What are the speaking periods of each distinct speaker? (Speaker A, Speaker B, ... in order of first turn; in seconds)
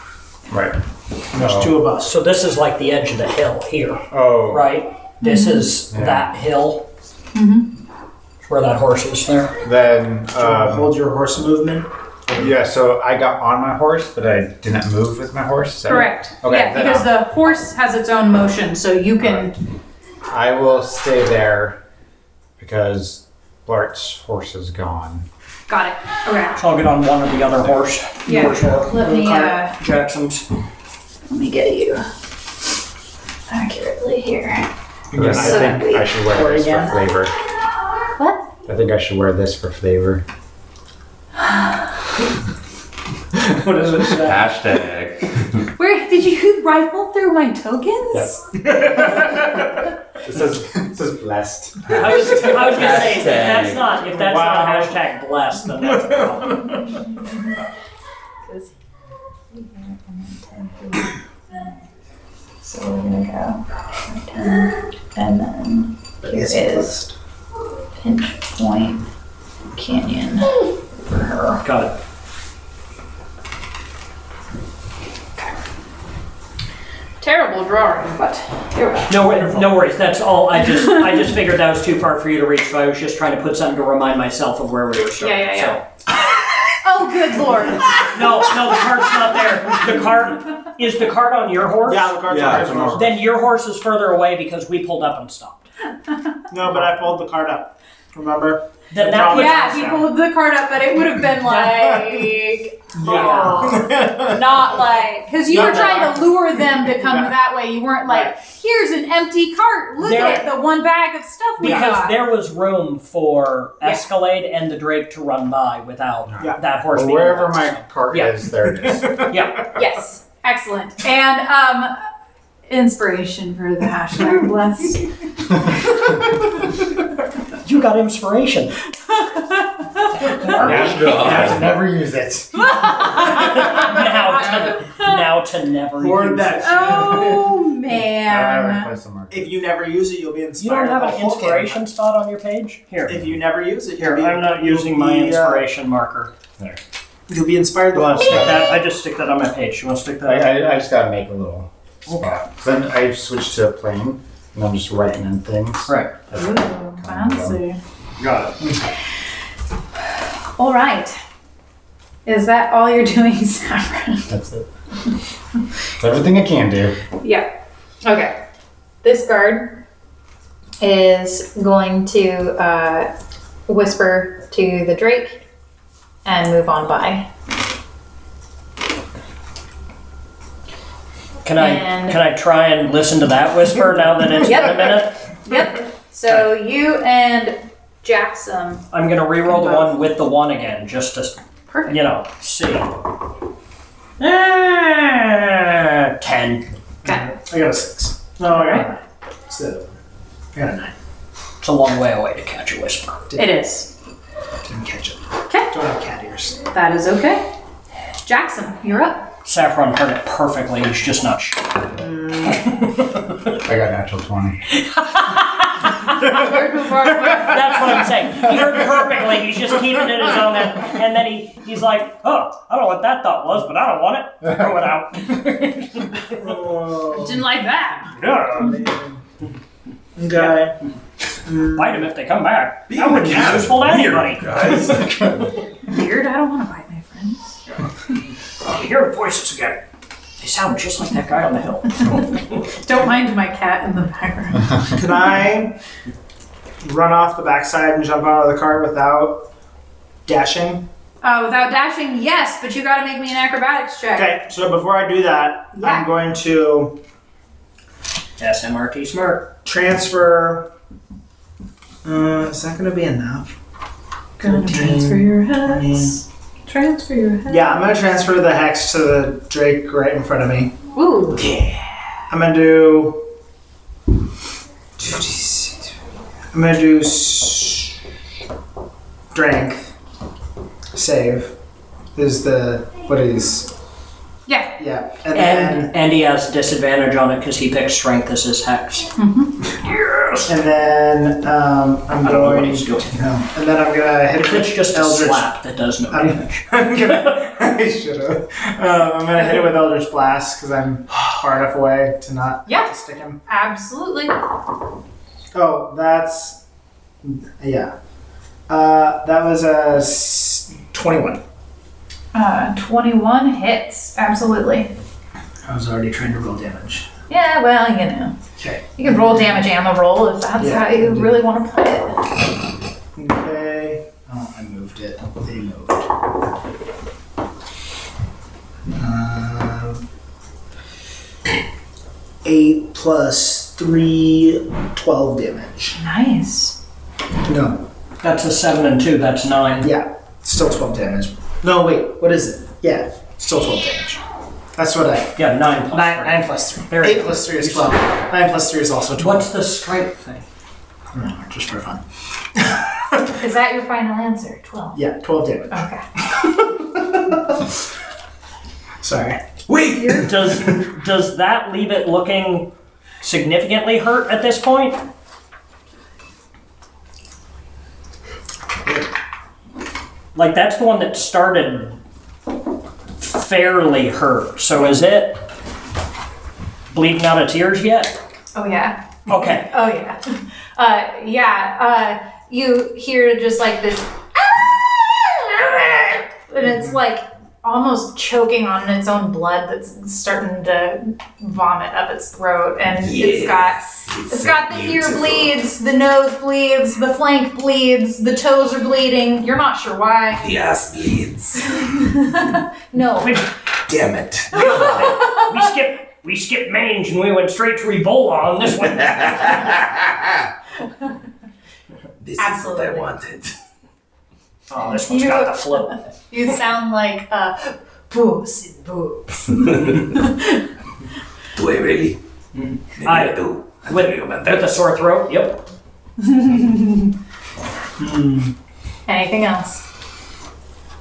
Speaker A: 0.5-0.8, 1.3-1.8, 4.1-4.7, 5.9-6.3, 9.6-10.9, 12.3-17.1, 19.2-19.5, 20.3-21.8, 22.6-25.3, 35.1-37.3, 38.6-40.2, 48.1-49.3, 50.1-52.2, 92.3-93.2, 116.3-119.2, 130.6-132.9, 138.2-139.5, 148.1-148.6, 150.2-157.6, 164.3-164.7, 166.0-167.0, 213.6-214.6
Speaker B: 1.3-2.1, 10.4-12.3, 28.3-29.6, 35.1-37.0, 43.6-44.3, 54.3-54.5, 56.1-56.7, 66.2-67.1, 91.8-93.1, 96.5-100.1, 101.6-102.0, 102.9-104.4, 105.5-107.3, 108.0-108.3, 136.0-137.6, 139.3-141.8, 143.1-145.6, 147.3-148.6, 197.0-199.9, 200.5-200.9, 204.6-206.6, 211.9-212.7, 226.3-227.4, 228.5-229.2, 230.2-230.8, 231.4-232.1, 244.9-245.8, 246.8-249.5, 250.2-250.9, 254.2-257.0, 259.6-260.7, 262.0-263.5, 264.4-266.2, 267.5-270.7, 272.3-273.3, 275.0-275.9, 276.5-278.0, 279.3-279.9, 280.9-281.5, 282.1-283.7, 284.8-285.9, 290.5-295.5, 296.1-303.4, 305.5-306.6, 307.2-307.9, 308.7-311.4, 315.6-317.1, 318.6-319.7, 320.6-321.4, 323.1-326.1, 328.9-330.0, 332.4-336.0, 337.4-337.9, 339.8-344.2, 344.8-349.5, 351.1-352.0, 352.5-353.3, 354.9-357.7, 359.0-359.4, 428.0-428.5
Speaker C: 2.0-6.9, 8.4-9.6, 26.6-28.9, 29.7-30.4, 43.7-44.2, 51.9-56.8, 71.6-72.0, 79.1-85.8, 88.0-92.2, 92.9-95.6, 98.9-99.9, 103.0-103.8, 105.5-106.0, 110.0-110.5, 111.6-118.4, 119.2-119.7, 127.6-128.8, 130.1-131.6, 133.1-137.2, 140.6-143.4, 144.0-146.3, 147.9-150.6, 152.1-152.3, 155.9-156.1, 158.2-158.6, 181.4-185.4, 188.9-192.9, 194.2-196.6, 201.6-203.2, 209.4-211.7, 214.9-216.5, 217.2-226.4, 228.1-228.8, 231.7-235.5, 238.6-239.8, 240.4-242.4, 258.4-259.5, 285.3-289.1, 289.6-290.5, 292.2-293.2, 294.4-297.0, 338.2-339.9, 345.4-348.2, 349.2-350.4, 360.1-365.0, 370.3-372.0, 373.2-375.5, 376.9-378.1, 379.3-379.7, 404.6-409.8, 414.7-416.0, 423.0-425.6
Speaker D: 5.2-5.7, 7.3-7.7, 15.9-19.5, 25.7-26.6, 28.2-29.8, 31.3-32.1, 33.5-34.7, 35.3-36.1, 38.2-38.5, 45.8-48.4, 56.9-57.3, 59.5-61.7, 62.6-67.0, 68.0-69.0, 69.7-71.6, 77.2-79.5, 85.2-85.8, 86.8-88.4, 99.3-112.2, 119.7-121.9, 122.7-125.1, 129.1-130.4, 132.6-135.2, 136.6-138.9, 156.3-157.8, 160.6-161.2, 162.2-164.3, 167.2-167.5, 168.0-168.4, 169.0-169.8, 170.8-173.1, 173.7-175.4, 176.2-177.3, 181.6-182.2, 184.4-188.8, 189.5-189.9, 191.7-192.0, 197.0-197.3, 198.5-198.9, 203.3-203.9, 205.5-205.7, 206.7-207.5, 208.2-209.3, 216.0-217.6, 227.1-228.2, 235.8-237.5, 242.8-244.8, 251.2-254.3, 255.8-256.1, 264.4-267.6, 270.9-271.5, 284.5-284.7, 289.2-289.6, 302.6-302.9, 303.4-304.4, 312.3-314.9, 317.3-318.4, 318.9-322.3, 335.9-336.8, 353.3-355.0, 355.7-356.0, 360.0-360.3, 378.5-400.5, 401.6-403.4, 404.5-405.5, 412.4-413.1, 414.8-420.6, 426.2-427.1, 429.1-429.8
Speaker E: 44.1-45.6, 51.9-53.9, 92.3-92.8, 130.5-131.8, 232.9-235.3, 359.7-360.5, 392.9-395.5, 400.4-401.8, 403.9-405.1, 409.2-410.4, 412.2-413.5, 419.6-420.1, 421.5-422.2, 423.0-424.7